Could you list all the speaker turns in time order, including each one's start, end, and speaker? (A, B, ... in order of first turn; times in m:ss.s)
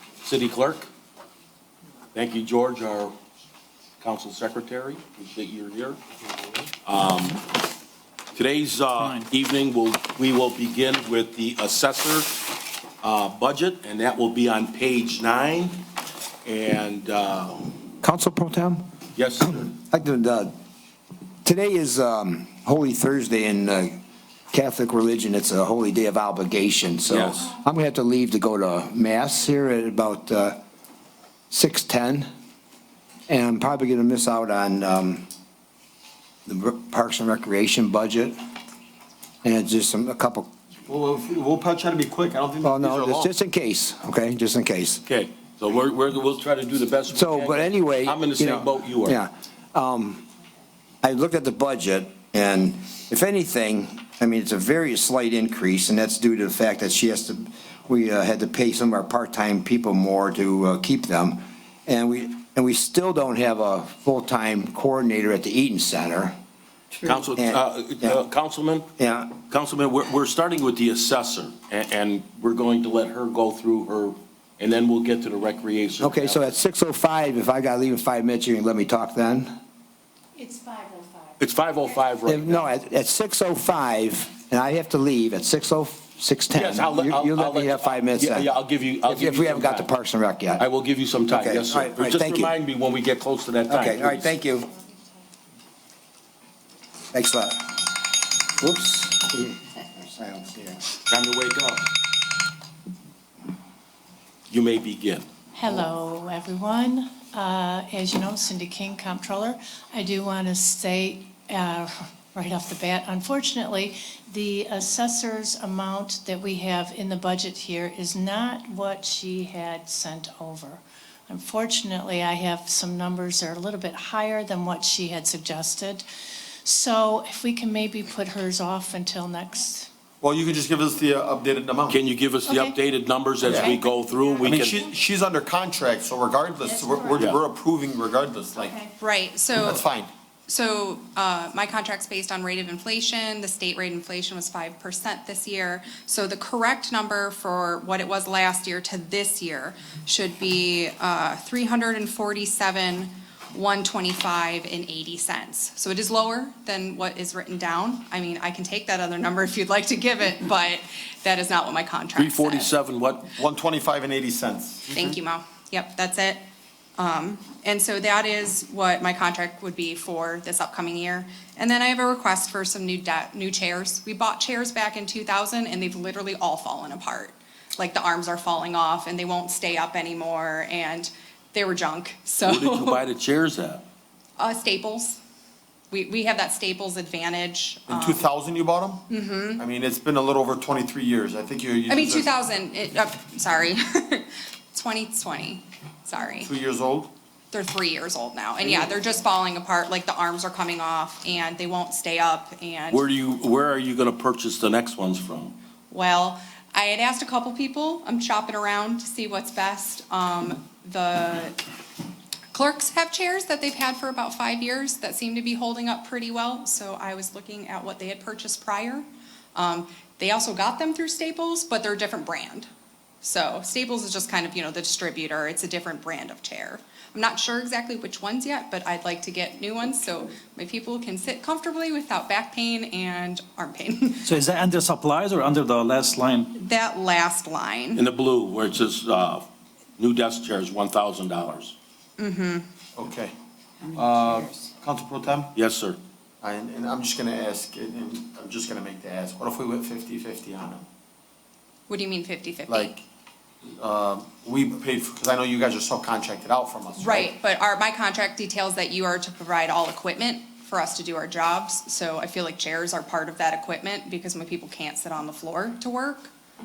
0:00.2-0:00.9 A
0:02.1-0:03.2 A
0:04.0-0:06.0 A
0:06.8-0:07.5 A
0:08.3-0:12.4 A
0:09.0-0:09.3 B
0:13.0-0:15.8 A
0:16.4-0:17.7 A
0:18.0-0:18.8 C
0:19.2-0:19.7 A
0:19.5-0:20.5 C
0:21.4-0:24.0 C
0:24.5-0:30.6 C
0:27.1-0:27.5 A
0:31.5-0:32.3 C
0:33.3-0:35.2 C
0:36.4-0:38.4 C
0:39.4-0:40.5 C
0:40.9-0:43.3 D
0:42.6-0:45.0 C
0:45.0-0:49.2 A
0:47.1-0:50.2 C
0:51.0-1:06.4 C
1:07.0-1:08.9 A
1:07.4-1:08.2 C
1:09.0-1:09.4 C
1:09.4-1:16.5 A
1:16.0-1:19.5 C
1:20.4-1:21.4 E
1:21.4-1:22.7 A
1:22.2-1:28.5 C
1:26.5-1:29.9 A
1:29.0-1:30.6 C
1:30.6-1:34.4 A
1:31.3-1:32.5 C
1:33.7-1:34.7 C
1:37.1-1:37.8 C
1:38.6-1:40.8 C
1:41.1-1:41.9 A
1:44.5-1:45.3 A
1:45.5-2:06.1 E
2:06.6-2:09.9 E
2:10.2-2:12.0 D
2:11.9-2:14.8 A
2:12.4-2:12.8 E
2:13.4-2:13.7 D
2:13.4-2:14.8 E
2:14.4-2:18.8 D
2:16.6-2:17.3 E
2:18.6-2:18.9 E
2:18.9-2:19.8 F
2:19.5-2:20.1 D
2:20.5-2:42.7 F
2:42.2-2:43.3 A
2:43.4-2:44.9 D
2:44.9-2:46.4 F
2:47.0-3:03.0 F
3:02.4-3:03.8 A
3:04.4-3:05.2 F
3:05.9-3:08.3 F
3:07.9-3:09.0 D
3:09.1-3:09.6 F
3:09.6-3:12.4 D
3:11.9-3:16.5 F
3:16.4-3:17.1 D
3:17.5-3:23.1 F
3:22.9-3:25.6 A
3:25.9-3:31.6 F
3:32.5-3:39.0 F
3:39.6-3:42.7 F
3:43.2-3:54.4 F
3:54.2-3:56.5 B
3:56.5-3:58.0 F
3:57.9-3:59.5 A
4:00.0-4:01.7 A
4:02.2-4:02.7 F
4:03.0-4:03.3 D
4:03.8-4:05.5 D
4:05.5-4:06.0 A
4:06.4-4:10.8 D
4:11.9-4:12.9 F
4:12.6-4:13.0 D
4:13.7-4:17.3 D
4:17.0-4:26.3 F